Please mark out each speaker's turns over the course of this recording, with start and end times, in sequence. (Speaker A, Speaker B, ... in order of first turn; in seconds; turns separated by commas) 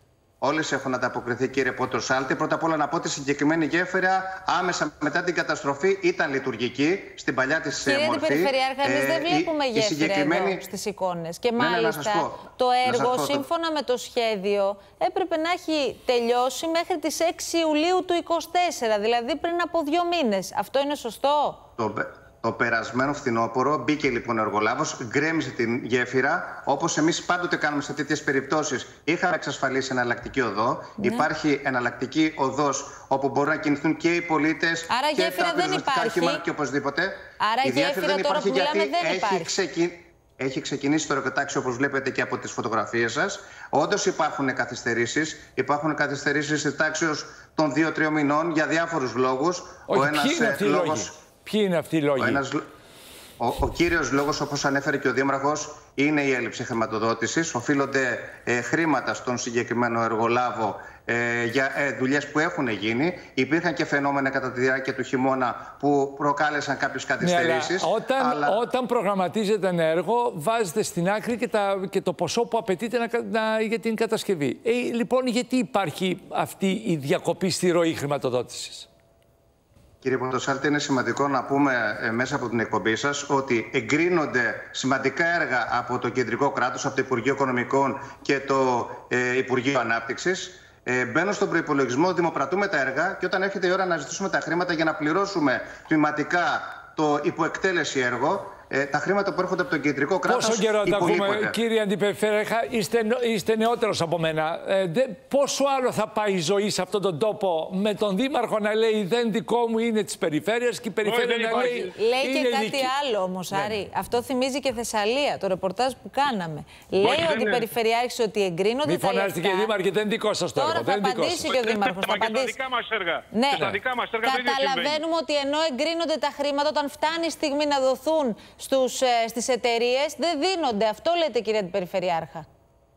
Speaker A: 0.4-10.6, Speaker B: 7.8-21.6, Speaker A: 11.6-13.4, Speaker A: 21.8-51.1, Speaker B: 31.0-31.3, Speaker B: 34.9-36.4, Speaker B: 37.4-39.5, Speaker C: 49.9-52.4, Speaker A: 52.2-52.6, Speaker A: 53.4-68.6, Speaker C: 67.2-78.9, Speaker A: 80.0-101.5, Speaker C: 100.3-112.9, Speaker D: 111.0-111.9, Speaker B: 111.9-119.7, Speaker C: 113.5-113.8, Speaker D: 117.0-117.7, Speaker C: 118.8-121.5, Speaker B: 120.5-122.6, Speaker D: 121.5-125.0, Speaker B: 123.3-123.6, Speaker C: 123.5-123.8, Speaker B: 124.2-132.4